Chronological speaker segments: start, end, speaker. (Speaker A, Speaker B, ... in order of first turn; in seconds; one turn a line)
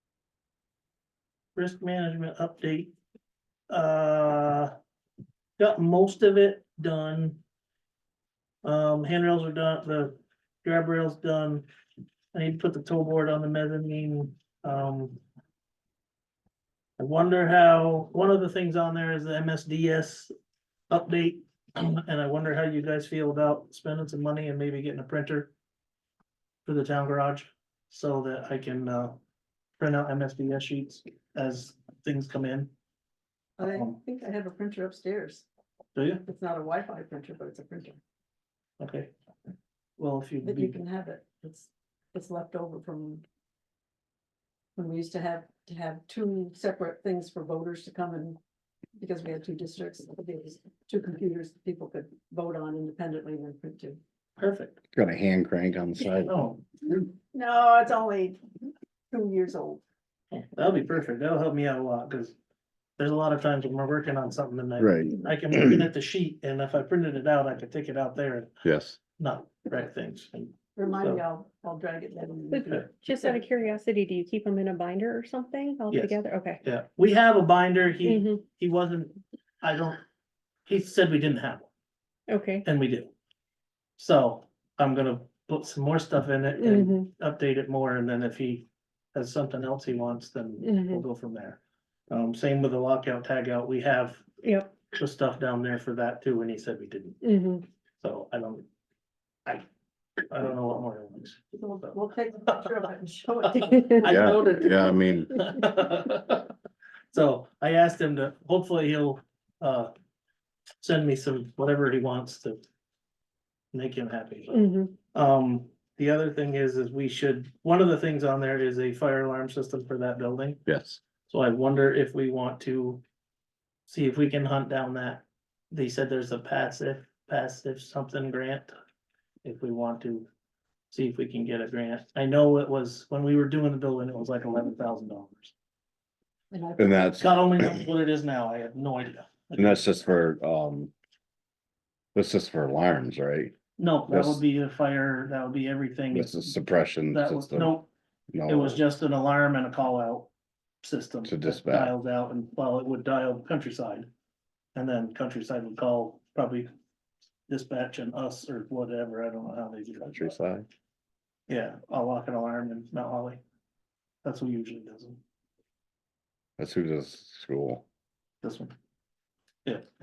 Speaker A: 1.6-2.9
Speaker A: 3.7-4.7
Speaker A: 5.6-7.4
Speaker A: 8.6-11.7
Speaker A: 12.3-15.2
Speaker A: 17.0-20.3
Speaker A: 20.9-25.5
Speaker A: 26.6-29.2
Speaker A: 29.8-32.7
Speaker B: 33.6-35.5
Speaker A: 36.0-36.2
Speaker B: 36.2-38.0
Speaker A: 38.8-39.1
Speaker A: 40.0-40.8
Speaker B: 40.4-43.2
Speaker B: 44.8-48.4
Speaker B: 49.0-54.0
Speaker A: 54.4-54.8
Speaker C: 54.9-56.4
Speaker A: 56.3-56.6
Speaker B: 57.3-58.4
Speaker B: 59.1-59.8
Speaker A: 60.3-62.4
Speaker A: 63.0-68.5
Speaker C: 64.8-65.8
Speaker C: 68.6-69.0
Speaker A: 69.2-71.2
Speaker B: 70.8-73.5
Speaker D: 72.5-76.6
Speaker A: 75.9-80.0
Speaker D: 78.0-78.4
Speaker A: 80.7-81.7
Speaker D: 82.3-82.7
Speaker A: 82.6-83.1
Speaker A: 84.0-94.3
Speaker D: 86.6-87.1
Speaker D: 90.6-91.0
Speaker D: 94.4-94.7
Speaker A: 94.9-97.2
Speaker D: 97.2-97.6
Speaker A: 98.0-98.7
Speaker A: 100.3-102.7
Speaker B: 101.5-104.2
Speaker A: 103.5-106.5
Speaker C: 104.0-105.3
Speaker A: 107.1-109.9
Speaker A: 110.8-112.6
Speaker A: 113.7-120.6
Speaker D: 114.5-114.9
Speaker C: 120.7-121.0
Speaker A: 121.3-123.0
Speaker A: 123.9-128.8
Speaker A: 129.4-130.3
Speaker A: 130.9-135.5
Speaker B: 136.5-137.1
Speaker C: 136.8-137.8
Speaker A: 137.2-139.8
Speaker C: 139.6-140.9
Speaker C: 142.2-143.6
Speaker A: 143.8-146.6
Speaker C: 144.1-144.4
Speaker C: 146.1-147.8
Speaker A: 147.1-147.9
Speaker C: 148.3-148.8
Speaker A: 148.5-150.3
Speaker A: 150.8-154.1
Speaker C: 151.2-151.9
Speaker A: 154.8-156.7
Speaker A: 157.5-160.4
Speaker C: 160.0-160.7
Speaker A: 161.5-163.4
Speaker A: 164.2-165.2
Speaker C: 166.6-167.8
Speaker A: 168.4-168.7